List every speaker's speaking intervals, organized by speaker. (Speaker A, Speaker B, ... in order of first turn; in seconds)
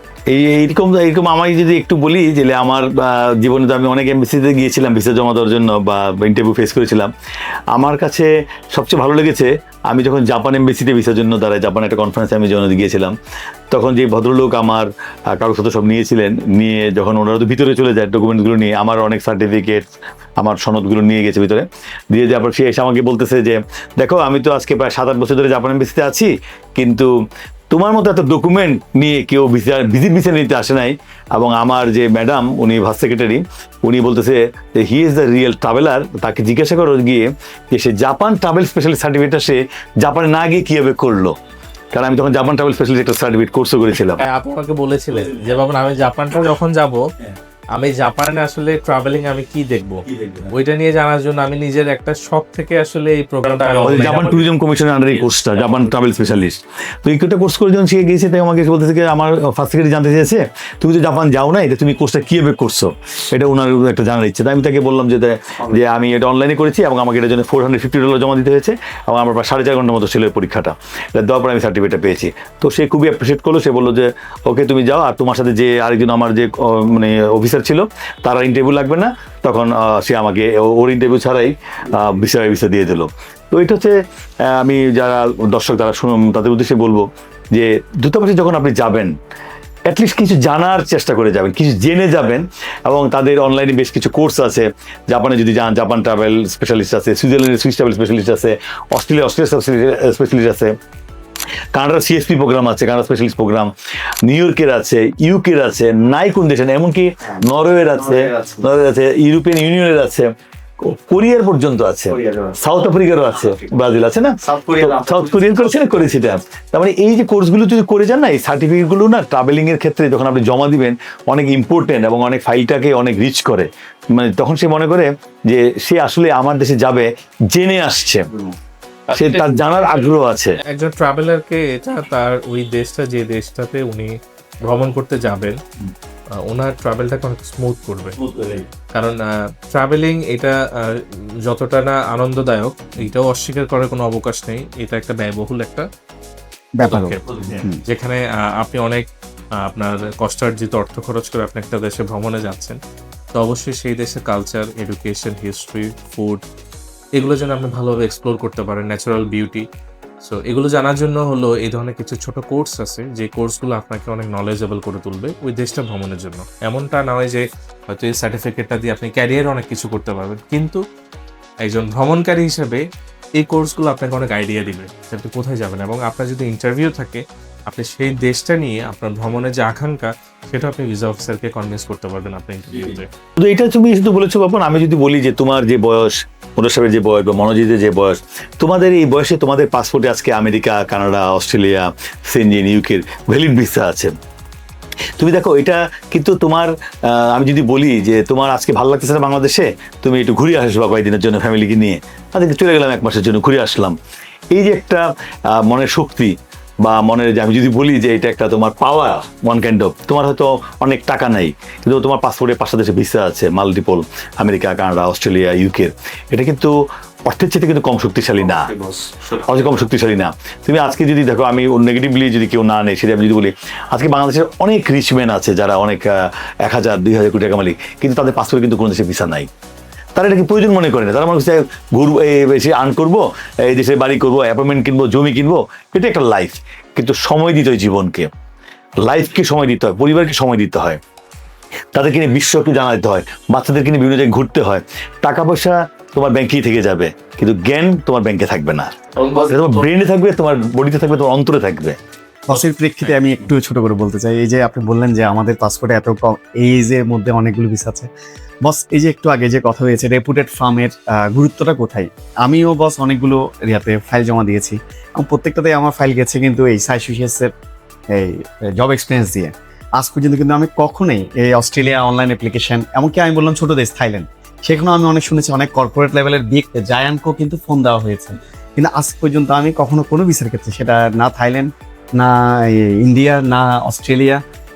Speaker A: 0.3-7.1, 7.7-13.1, 13.7-19.8, 20.4-27.1, 27.7-41.4, 41.9-44.2, 50.1-50.4, 53.8-89.1, 89.9-100.7, 101.7-103.7, 104.2-128.3, 129.1-130.6, 138.2-138.7, 183.4-194.1, 195.2-203.9, 204.5-216.7, 217.2-218.7, 219.4-229.5, 230.1-238.3, 239.0-241.0, 241.9-249.0, 249.5-252.0
Speaker B: 44.1-47.0, 47.7-54.5, 129.1-130.0, 130.6-134.1, 134.7-135.6, 136.4-138.2, 138.9-145.8, 146.8-149.1, 149.6-152.8, 153.3-156.4, 157.2-159.6, 160.2-170.8, 171.6-172.8, 173.4-183.1, 218.7-219.5, 249.2-249.8
Speaker C: 146.8-147.8, 252.5-258.1, 258.6-267.5, 268.1-284.4